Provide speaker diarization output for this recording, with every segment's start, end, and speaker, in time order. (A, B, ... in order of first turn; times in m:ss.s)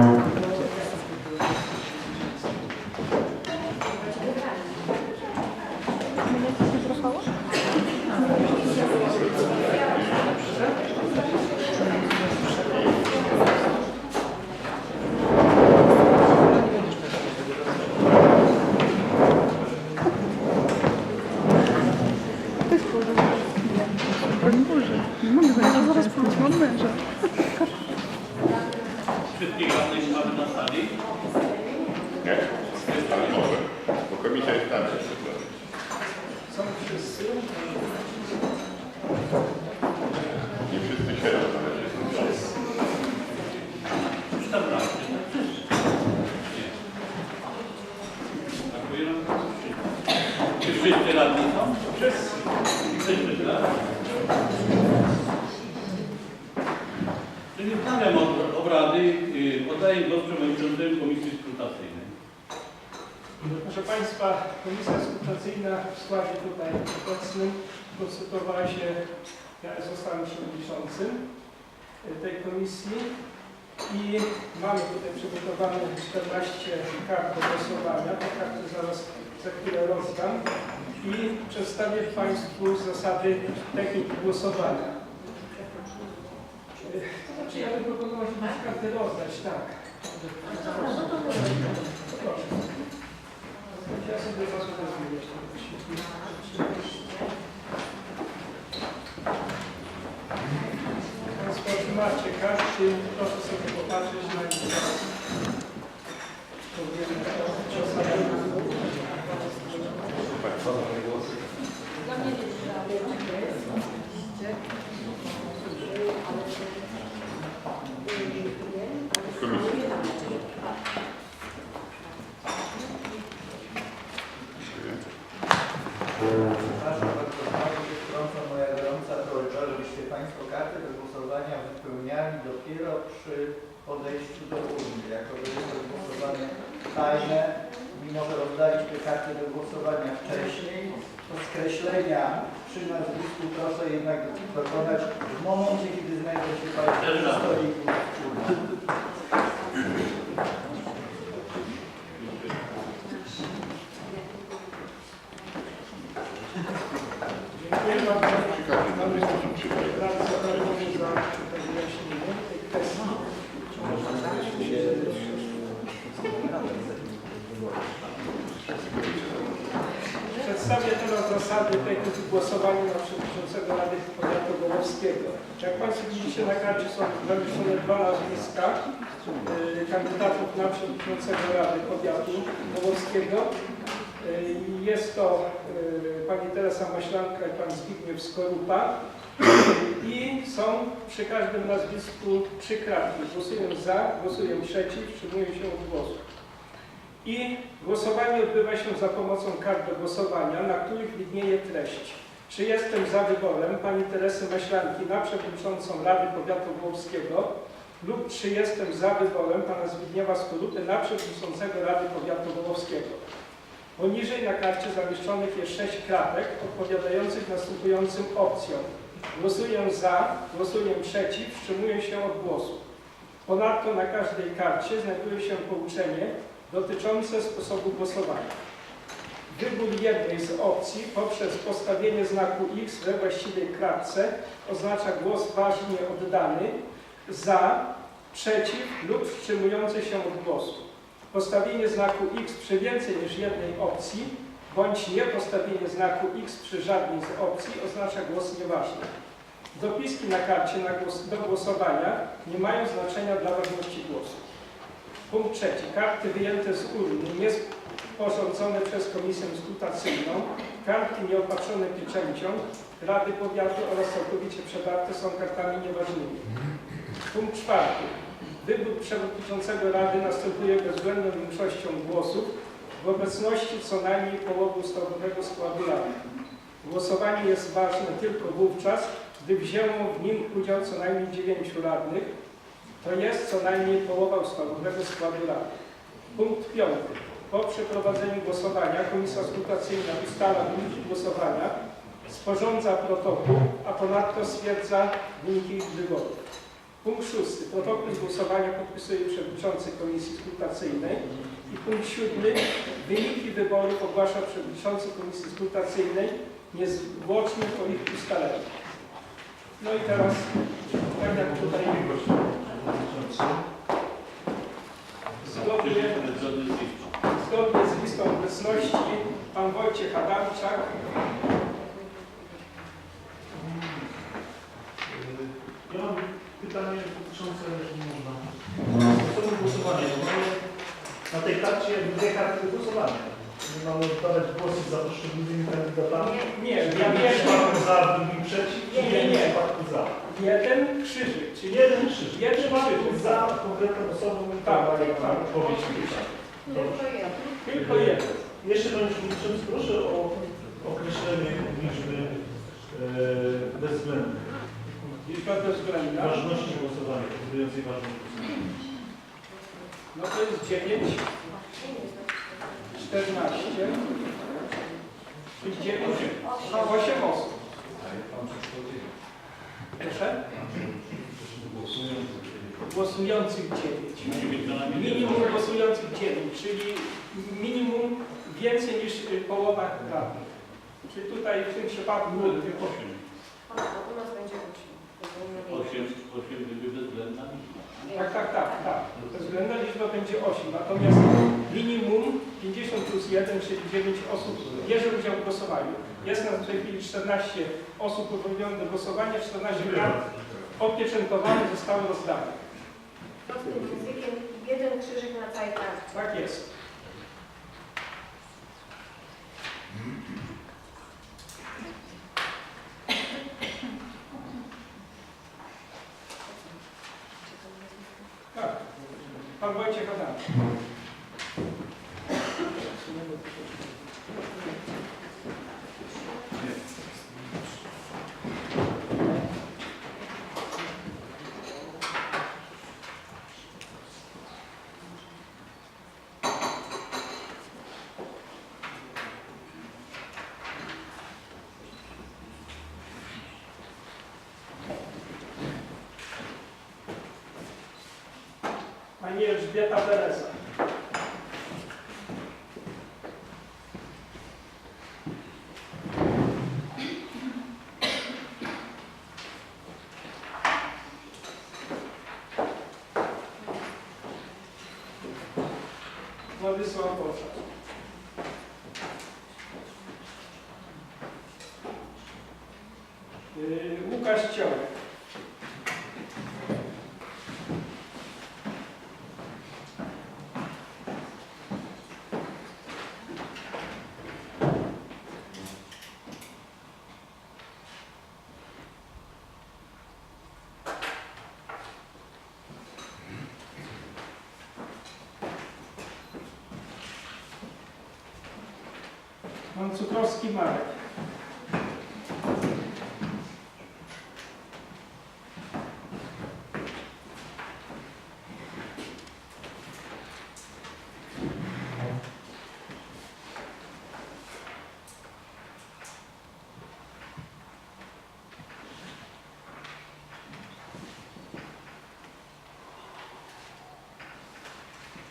0:00.2-0:01.0 A
0:08.6-0:09.2 A
0:09.7-0:10.0 A
0:29.3-0:31.0 B
0:31.6-0:32.6 C
0:32.8-0:33.6 B
0:33.4-0:35.5 D
0:36.5-0:38.0 A
0:40.7-0:41.9 D
0:42.1-0:42.6 A
0:44.3-0:45.6 B
0:48.7-0:49.9 B
0:50.6-0:51.9 B
0:51.9-0:52.4 A
0:52.9-0:53.7 B
0:57.5-1:02.1 B
1:03.4-1:09.0 A
1:09.6-1:11.2 A
1:12.0-1:13.1 A
1:13.9-1:25.0 A
1:26.8-1:32.6 A
1:33.7-1:36.9 A
1:41.3-1:45.1 A
1:46.7-1:49.1 A
1:53.0-1:53.5 C
1:59.4-1:59.8 D
2:06.3-2:28.6 E
2:26.9-2:27.6 B
2:37.7-2:45.5 A
2:38.8-2:39.8 D
2:48.9-2:49.5 D
2:50.3-2:58.8 A
2:59.4-3:03.5 A
3:04.2-3:16.2 A
3:17.2-3:33.2 A
3:34.0-3:42.8 A
3:43.4-3:48.6 A
3:49.5-3:56.8 A
3:57.3-4:09.1 A
4:09.7-4:14.4 A
4:15.3-4:26.4 A
4:27.2-4:36.1 A
4:36.8-4:42.3 A
4:43.0-4:45.7 A
4:46.3-4:56.4 A
4:57.0-5:08.7 A
5:09.8-5:10.5 A
5:11.0-5:13.6 F
5:11.0-5:12.2 A
5:15.4-5:16.2 A
5:15.6-5:17.1 B
5:17.2-5:20.9 A
5:23.6-5:24.0 F
5:25.0-5:28.5 F
5:29.0-5:30.6 F
5:31.3-5:40.2 F
5:36.3-5:37.8 A
5:36.4-5:36.6 C
5:38.9-5:39.6 A
5:40.2-5:43.5 A
5:41.6-5:47.2 F
5:44.6-5:46.3 A
5:46.7-5:47.4 C
5:47.6-5:48.4 A
5:47.7-5:55.1 F
5:55.2-5:56.4 A
5:56.0-5:58.6 F
6:00.1-6:01.2 A
6:02.9-6:04.0 A
6:05.6-6:07.6 A
6:06.0-6:06.3 B
6:10.0-6:10.4 A
6:12.8-6:20.4 A
6:14.3-6:15.5 B
6:21.0-6:22.9 A
6:22.3-6:23.3 B
6:23.7-6:25.6 C
6:25.7-6:28.1 B
6:28.1-6:40.2 A
6:39.7-6:40.4 F
6:40.8-6:42.6 A
6:43.5-6:46.0 C
6:46.1-6:46.7 A
6:58.5-6:58.8 A
6:59.5-7:00.4 A
7:29.2-7:30.6 A
7:46.5-7:47.6 A
7:53.5-7:54.9 A
8:19.7-8:21.0 A